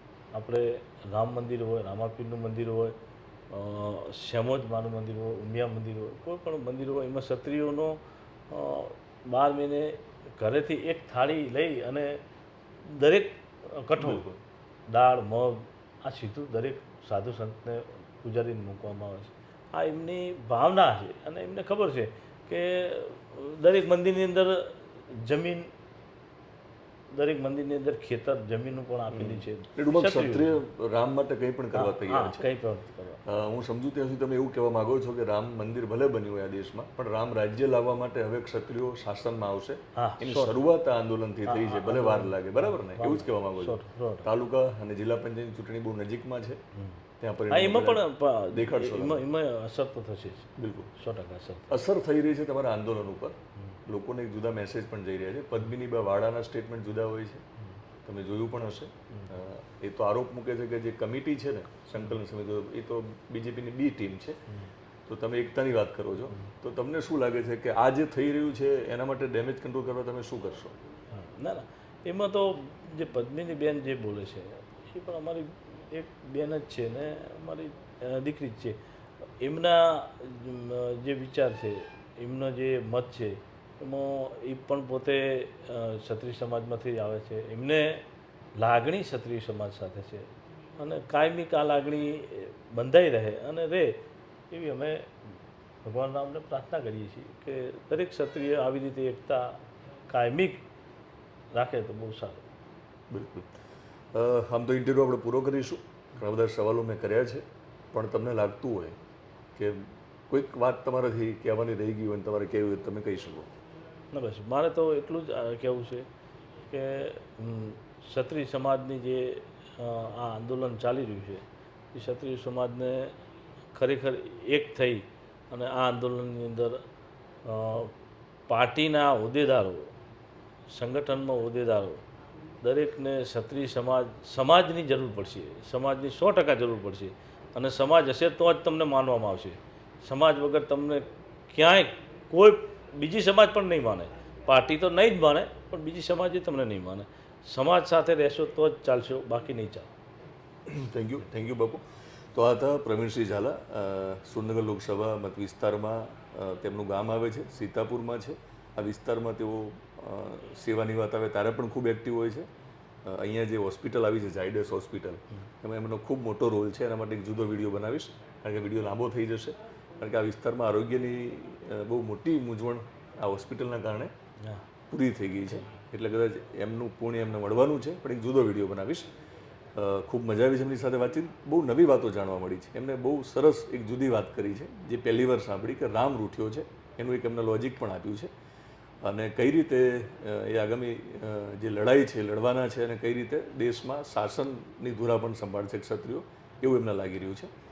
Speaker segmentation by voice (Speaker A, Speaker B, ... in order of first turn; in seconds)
Speaker A: 0.3-3.0, 3.5-8.0, 8.5-12.2, 12.8-14.2, 14.9-25.7, 27.1-30.6, 31.7-33.2, 39.9-40.6, 41.5-44.3, 46.7-47.0, 47.5-51.7, 71.1-78.8, 79.4-88.0, 88.6-95.1, 95.8-100.6, 101.5-102.4, 114.1-116.1, 116.7-123.1, 123.7-126.8, 127.4-127.9, 128.5-129.9, 130.7-132.0, 132.6-149.9, 174.4-174.6
Speaker B: 14.0-14.4, 29.1-32.5, 33.2-46.6, 47.2-49.2, 50.6-50.9, 51.7-57.4, 58.0-64.4, 65.1-70.7, 103.1-103.5, 104.1-109.0, 109.5-113.5, 150.7-151.8, 152.3-162.5, 163.0-174.1, 174.9-179.1, 179.7-188.3, 189.0-197.5